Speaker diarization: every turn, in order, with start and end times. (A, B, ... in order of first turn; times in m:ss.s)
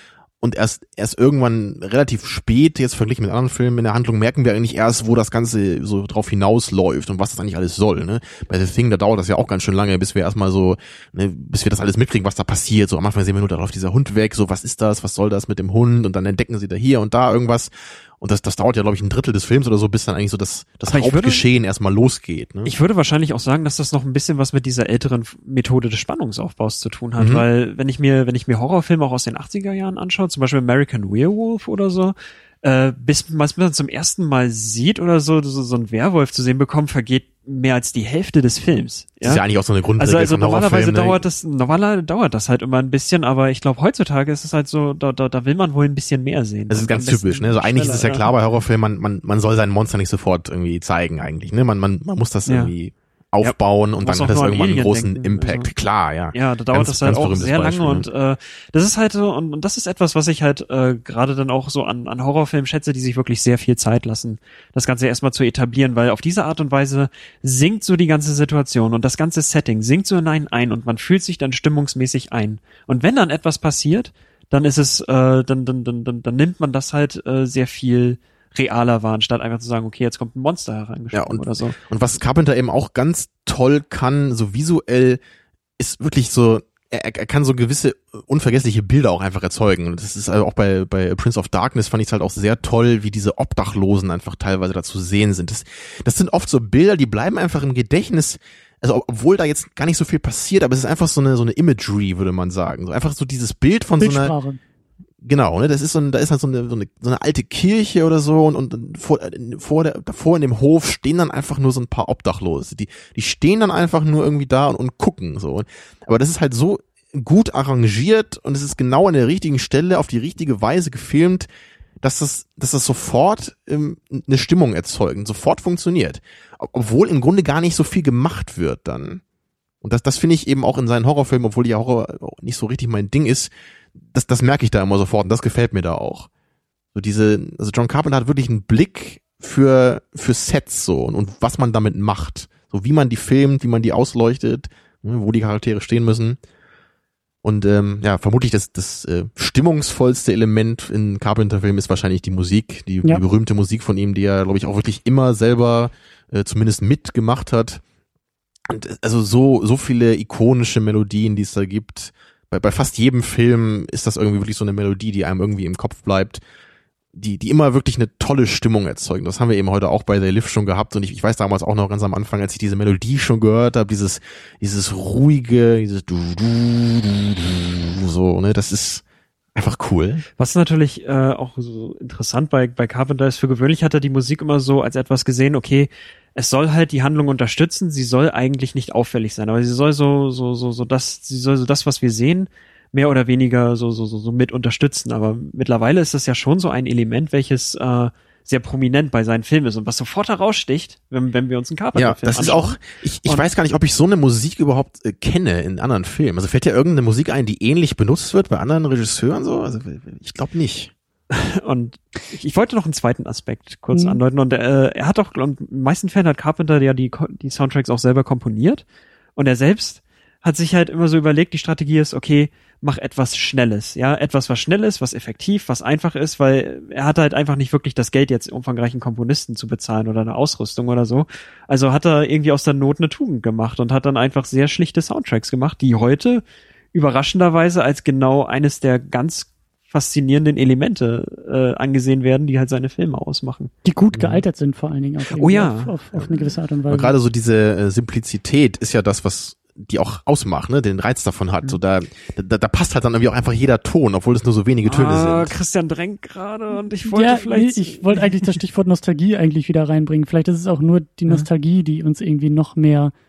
0:00.4-0:22.7 A
0:20.9-0:21.5 B
0:22.6-0:39.4 B
0:27.2-0:27.4 A
0:39.2-0:41.2 A
0:40.0-0:48.3 B
0:46.7-0:58.1 A
0:52.5-0:52.7 B
0:53.4-0:55.7 B
0:56.3-1:21.8 B
1:21.1-1:25.2 A
1:25.8-1:44.3 A
1:44.0-1:44.6 C
1:45.2-2:01.5 A
2:02.0-2:09.2 A
2:09.8-2:13.5 A
2:14.1-2:16.3 A
2:17.0-2:26.4 A
2:27.4-2:37.8 A
2:38.7-2:46.4 A
2:47.2-2:59.0 A
2:59.6-3:00.2 A
3:00.4-3:23.4 B
3:22.0-3:30.9 A
3:31.3-3:38.8 B
3:33.9-3:34.2 C
3:39.4-3:56.4 B
3:56.9-4:03.7 B
4:03.8-4:07.2 C
4:04.1-4:04.4 A
4:05.4-4:06.0 B
4:06.9-4:15.6 A
4:14.8-4:18.6 B
4:17.1-4:23.1 C